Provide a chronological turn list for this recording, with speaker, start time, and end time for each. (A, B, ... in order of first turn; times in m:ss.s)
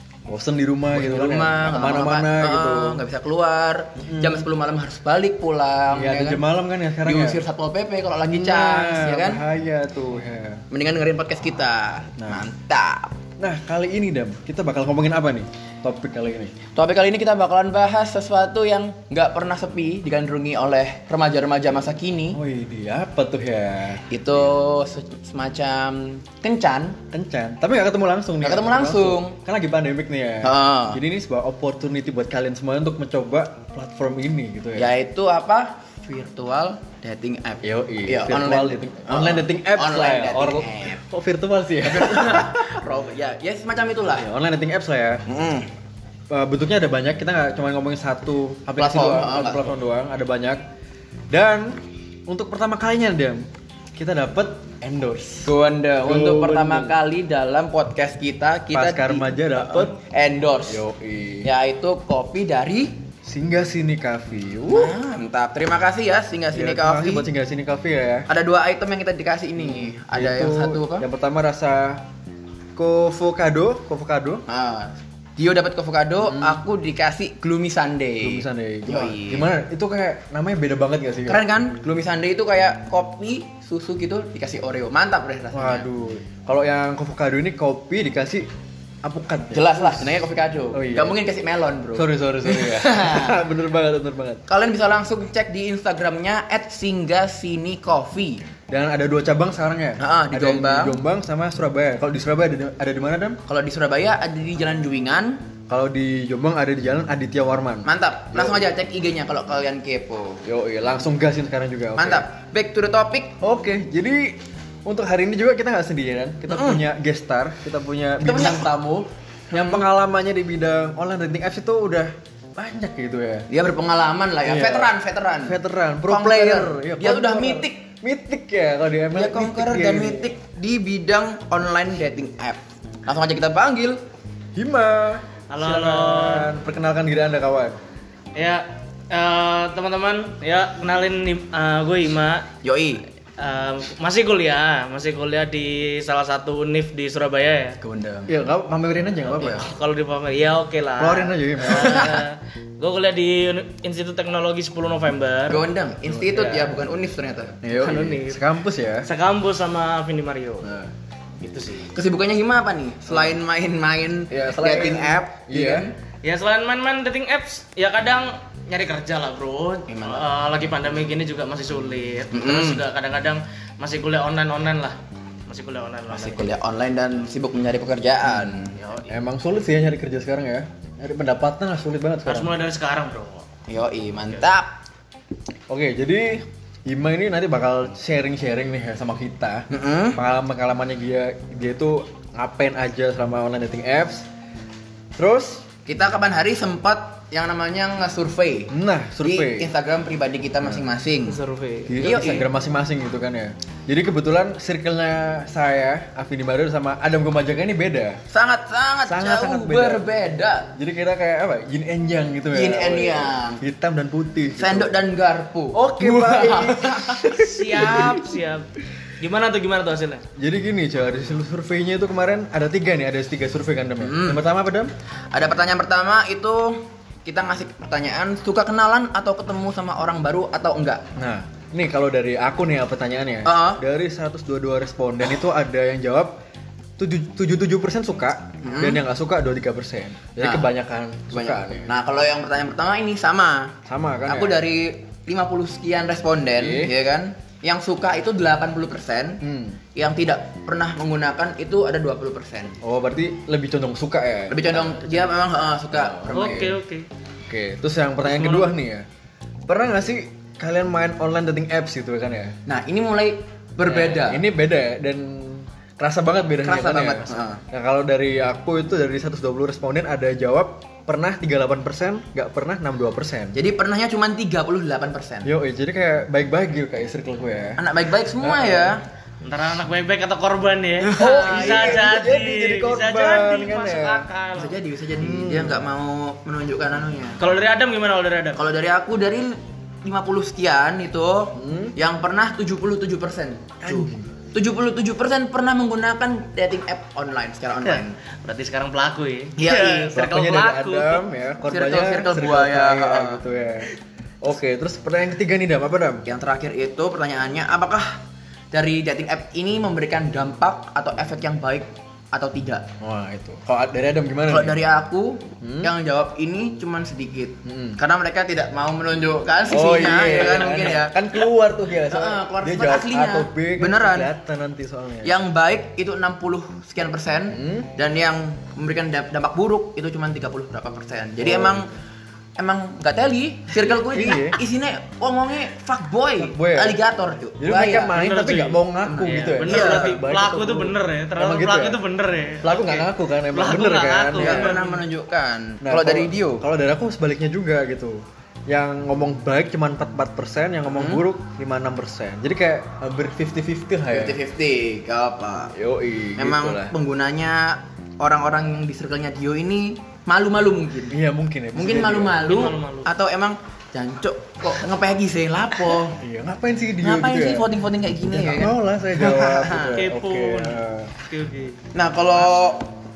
0:00.3-0:03.0 A
0:00.9-0:06.4 B
0:04.0-0:04.4 A
0:05.9-0:07.4 A
0:07.0-0:09.4 B
0:08.3-0:10.6 A
0:10.7-0:13.1 B
0:12.2-0:12.4 A
0:13.4-0:16.5 A
0:16.8-0:22.4 B
0:22.3-0:24.4 A
0:24.1-0:27.0 B
0:27.1-0:34.9 A
0:28.4-0:29.4 B
0:30.4-0:31.0 B
0:34.8-0:41.0 B
0:37.6-0:42.8 A
0:41.8-0:44.2 B
0:44.2-0:45.2 A
0:45.2-0:45.7 B
0:46.3-0:50.6 A
0:48.8-0:49.7 B
0:51.3-0:57.0 A
0:55.4-1:00.8 B
0:58.7-0:59.9 A
1:00.7-1:01.5 A
1:01.4-1:03.0 B
1:03.2-1:05.0 A
1:04.7-1:07.3 B
1:06.5-1:08.3 A
1:08.3-1:11.0 B
1:09.6-1:12.0 A
1:12.7-1:14.4 A
1:14.5-1:19.5 B
1:16.2-1:16.6 A
1:18.2-1:21.4 A
1:21.3-1:25.9 B
1:25.5-1:28.5 A
1:29.0-1:30.2 A
1:29.5-1:33.3 B
1:30.7-1:31.2 A
1:31.9-1:34.4 A
1:34.5-1:38.4 B
1:38.7-1:43.4 A
1:40.0-1:41.0 B
1:43.5-1:45.4 B
1:45.7-1:48.7 A
1:47.8-1:50.4 B
1:50.4-1:52.2 A
1:52.0-1:53.3 B
1:53.4-2:03.5 A
1:56.5-1:56.8 B
1:58.2-1:58.7 B
1:59.5-1:59.8 B
2:03.5-2:07.8 B
2:04.4-2:10.3 A
2:09.1-2:14.0 B
2:14.5-2:17.8 A
2:15.5-2:16.5 C
2:18.3-2:22.4 C
2:22.6-2:23.0 B
2:23.4-2:27.8 C
2:27.8-2:28.3 B
2:28.3-2:29.7 A
2:29.3-2:35.6 C
2:31.0-2:32.2 A
2:31.7-2:32.1 B
2:35.5-2:37.6 B
2:36.1-2:36.8 A
2:37.6-2:39.1 A
2:37.8-2:38.4 C
2:39.0-2:40.7 C
2:40.6-2:40.9 A
2:41.4-2:41.9 C
2:41.8-2:46.0 B
2:44.3-2:45.9 A
2:46.2-2:56.6 C
2:49.9-2:50.3 B
2:52.3-2:52.8 B
2:56.1-2:58.8 B
2:58.7-2:59.1 C
2:59.1-3:02.5 A
3:02.2-3:03.4 C
3:03.7-3:04.7 B
3:05.7-3:14.3 A
3:09.7-3:10.2 B
3:15.2-3:15.6 A
3:15.8-3:18.7 B
3:18.7-3:19.7 A
3:19.2-3:21.4 B
3:21.2-3:22.4 C
3:21.9-3:28.2 A
3:22.0-3:22.4 B
3:28.3-3:30.7 B
3:29.0-3:30.1 A
3:30.7-3:34.9 A
3:32.5-3:33.6 B
3:34.6-3:38.1 B
3:35.7-3:38.1 A
3:37.3-3:38.6 C
3:39.2-3:40.2 C
3:40.4-3:44.9 A
3:44.0-3:44.4 B
3:45.3-3:51.0 B
3:51.2-3:56.3 A
3:53.4-3:53.8 B
3:57.0-4:01.9 A
3:58.6-3:59.0 B
4:00.4-4:00.7 B
4:01.3-4:03.7 B
4:03.8-4:04.6 A
4:04.2-4:09.4 B
4:06.6-4:06.9 A
4:09.4-4:09.8 A
4:09.9-4:12.8 B
4:12.8-4:15.3 A
4:14.5-4:16.8 B
4:15.9-4:16.8 A
4:16.3-4:17.1 C
4:17.4-4:19.1 A
4:18.2-4:18.7 C
4:19.7-4:22.5 A
4:22.7-4:24.4 B
4:23.8-4:33.6 A
4:26.6-4:27.6 B
4:33.5-4:35.5 B
4:35.4-4:37.8 A
4:37.8-4:39.0 B
4:38.4-4:38.9 A
4:39.4-4:44.8 C
4:41.0-4:42.0 B
4:41.2-4:44.3 A
4:44.5-4:47.4 B
4:45.2-4:45.8 A
4:47.4-4:48.6 C
4:48.5-4:58.2 B
4:51.5-4:51.9 A
4:53.8-4:54.3 A
4:57.8-5:01.2 C
4:59.6-5:00.1 B
5:00.1-5:03.9 A
5:01.7-5:03.4 B
5:04.4-5:06.2 A
5:06.2-5:08.2 B
5:08.7-5:12.9 B
5:13.0-5:14.8 A
5:14.5-5:21.2 B
5:15.6-5:15.9 A
5:17.6-5:18.0 A
5:19.7-5:25.3 A
5:22.1-5:24.3 B
5:25.2-5:31.9 B
5:27.5-5:27.9 A
5:31.4-5:31.8 A
5:32.6-5:38.1 B
5:33.8-5:34.6 A
5:36.4-5:37.0 A
5:37.6-5:42.0 A
5:38.1-5:45.0 C
5:39.1-5:40.2 B
5:42.6-5:44.7 A
5:44.4-5:46.6 B
5:45.8-5:54.4 A
5:50.9-5:51.2 B
5:54.1-5:55.7 B
5:55.7-5:56.9 A
5:56.4-6:01.2 B
6:01.1-6:02.4 A
6:01.7-6:06.2 B
6:02.4-6:03.1 C
6:06.1-6:07.7 A
6:07.0-6:10.0 B
6:08.2-6:11.1 A
6:10.0-6:11.8 C
6:11.9-6:12.9 B